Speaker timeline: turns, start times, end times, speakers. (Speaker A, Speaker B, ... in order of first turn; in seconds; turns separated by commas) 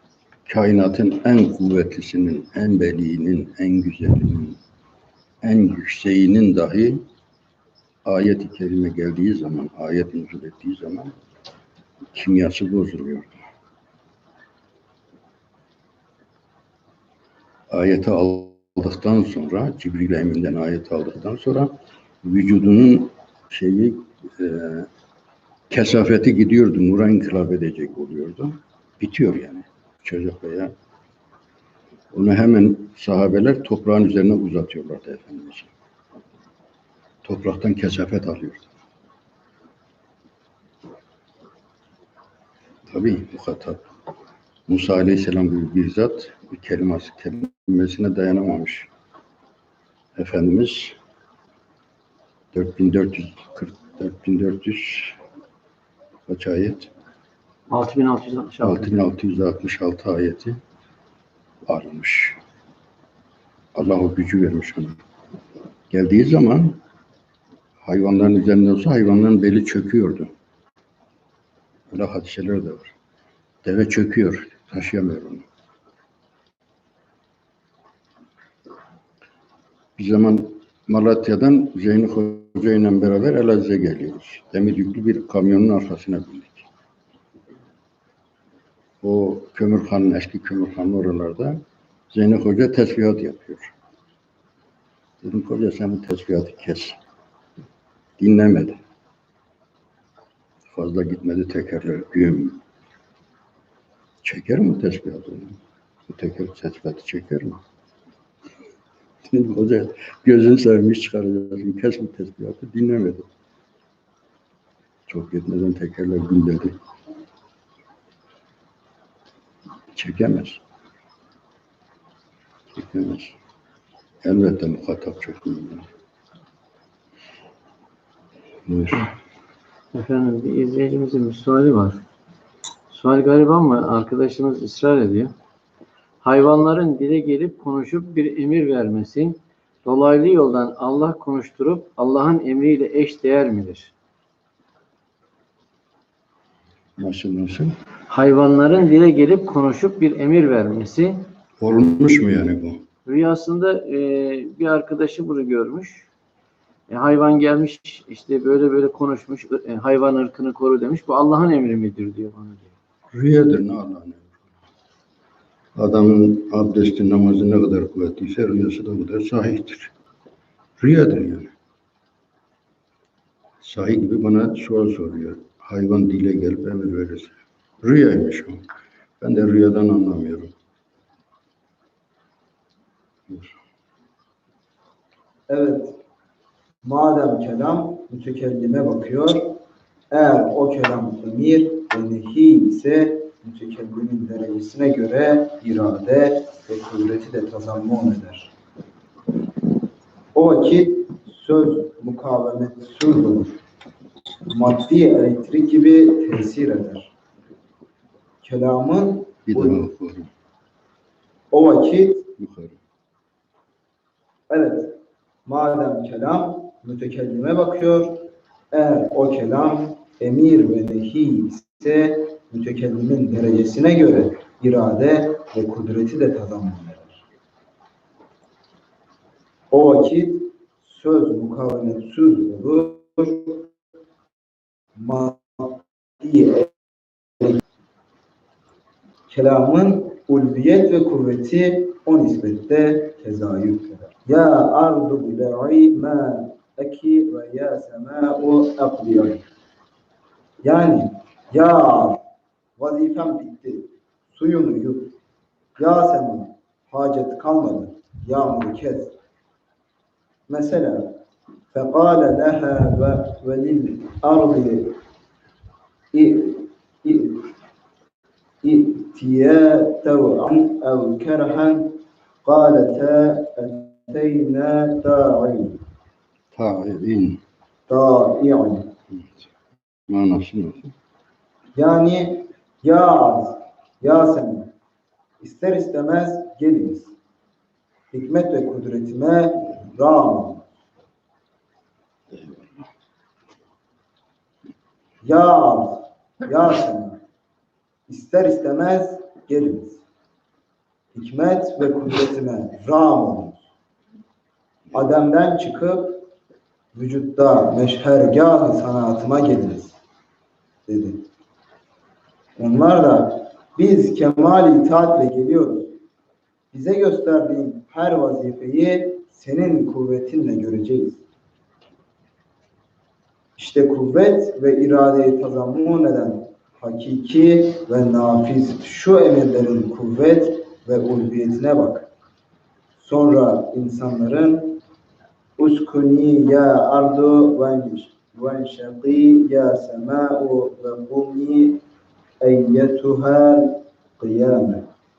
Speaker A: 0.5-4.6, Speaker A: 5.4-7.0, Speaker A: 8.0-11.1, Speaker A: 12.1-13.4, Speaker A: 17.7-21.7, Speaker A: 22.2-24.9, Speaker A: 25.7-30.7, Speaker A: 32.1-35.7, Speaker A: 37.2-38.7, Speaker A: 42.9-43.8, Speaker A: 44.7-48.9, Speaker A: 50.1-51.0, Speaker A: 52.5-55.1, Speaker A: 56.3-56.9, Speaker B: 57.7-58.9, Speaker A: 58.6-60.6, Speaker A: 61.7-62.4, Speaker A: 63.7-65.0, Speaker A: 65.9-66.8, Speaker A: 67.8-70.3, Speaker A: 71.9-72.9, Speaker A: 73.6-75.4, Speaker A: 80.0-86.7, Speaker A: 89.0-91.6, Speaker A: 92.1-93.7, Speaker A: 95.2-97.0, Speaker A: 98.2-98.8, Speaker A: 100.7-102.6, Speaker A: 104.2-107.6, Speaker A: 109.2-113.2, Speaker A: 115.1-116.8, Speaker A: 119.9-120.6, Speaker A: 122.8-123.3, Speaker A: 124.2-125.9, Speaker A: 128.7-129.1, Speaker B: 129.9-132.0, Speaker B: 132.9-135.3, Speaker B: 136.2-143.9, Speaker A: 147.0-147.7, Speaker B: 148.1-151.3, Speaker A: 151.6-152.8, Speaker B: 153.1-156.1, Speaker B: 156.9-162.7, Speaker A: 163.1-164.4, Speaker A: 165.8-169.9, Speaker A: 170.8-171.5, Speaker A: 173.6-178.6, Speaker A: 179.2-180.5, Speaker C: 185.5-186.0, Speaker C: 186.8-189.6, Speaker C: 190.1-198.5, Speaker C: 200.3-203.6, Speaker C: 204.5-207.1, Speaker C: 208.4-209.8, Speaker A: 209.5-210.3, Speaker C: 211.5-212.3, Speaker A: 212.4-212.8, Speaker C: 214.5-227.2, Speaker C: 229.7-233.7, Speaker C: 234.9-236.8, Speaker C: 239.3-249.4, Speaker C: 250.6-252.2, Speaker C: 252.8-255.1, Speaker C: 255.8-259.1, Speaker C: 260.5-261.1, Speaker C: 261.7-264.9, Speaker C: 266.1-267.5, Speaker C: 268.6-275.8, Speaker A: 276.5-277.4, Speaker C: 277.9-278.9, Speaker A: 280.1-280.9, Speaker C: 281.8-284.7, Speaker C: 285.4-287.1, Speaker C: 288.1-290.6, Speaker A: 292.3-292.6, Speaker C: 295.2-297.2, Speaker C: 298.1-300.0, Speaker C: 301.1-303.6, Speaker C: 304.9-306.2, Speaker C: 306.9-309.9, Speaker C: 310.9-311.2, Speaker C: 312.6-315.9, Speaker C: 316.7-321.2, Speaker C: 323.6-332.1, Speaker C: 333.0-334.8, Speaker C: 335.6-341.8, Speaker C: 342.4-344.8